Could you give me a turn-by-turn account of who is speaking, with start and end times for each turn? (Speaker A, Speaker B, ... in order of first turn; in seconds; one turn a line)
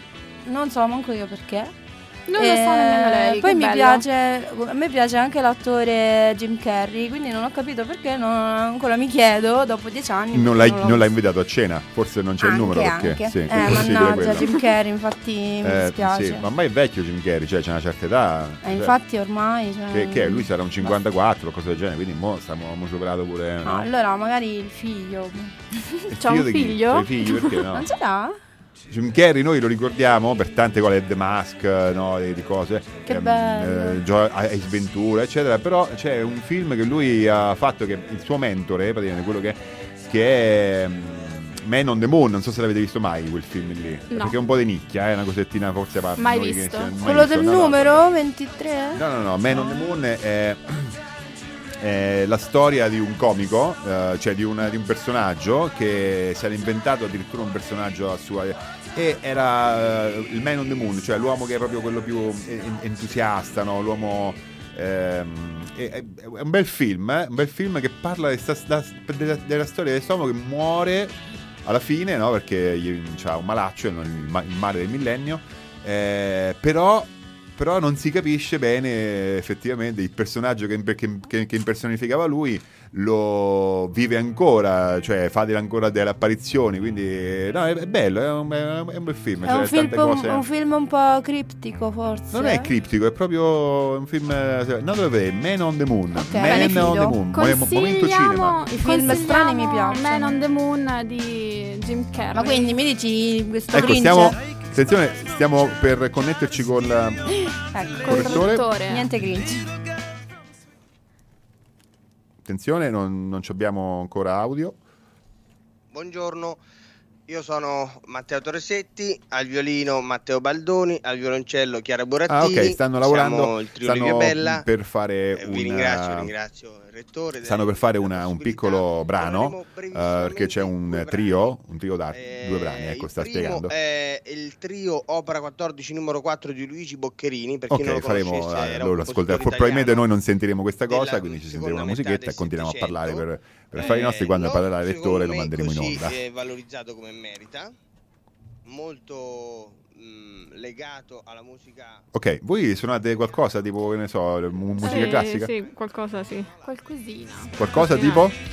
Speaker A: 0.4-1.7
Speaker B: 2.3-4.0
Speaker A: 2.4-11.1
Speaker C: 10.3-14.5
Speaker A: 12.4-16.4
Speaker C: 15.6-19.0
Speaker A: 18.6-20.9
Speaker C: 19.9-23.9
Speaker A: 23.6-26.1
Speaker C: 26.1-27.9
Speaker B: 26.2-27.7
Speaker A: 27.7-28.4
Speaker C: 28.9-48.1
Speaker A: 33.0-34.0
Speaker B: 44.1-44.4
Speaker B: 46.2-47.0
Speaker A: 47.0-49.0
Speaker C: 48.9-50.9
Speaker C: 51.8-90.4
Speaker A: 89.4-92.7
Speaker C: 92.3-98.6
Speaker A: 96.2-97.2
Speaker B: 96.4-102.8
Speaker A: 98.7-100.4
Speaker A: 102.3-104.4
Speaker C: 103.7-107.3
Speaker A: 107.7-109.7
Speaker C: 108.0-108.7
Speaker B: 108.0-109.1
Speaker C: 112.4-114.8
Speaker D: 115.9-116.6
Speaker D: 117.3-124.6
Speaker C: 122.3-126.3
Speaker D: 125.3-131.6
Speaker C: 127.4-133.7
Speaker D: 132.1-140.1
Speaker C: 137.7-146.2
Speaker D: 140.9-147.7
Speaker D: 148.7-152.0
Speaker C: 152.1-155.5
Speaker E: 154.8-156.5
Speaker B: 156.6-157.6
Speaker C: 157.6-158.3
Speaker E: 157.7-158.3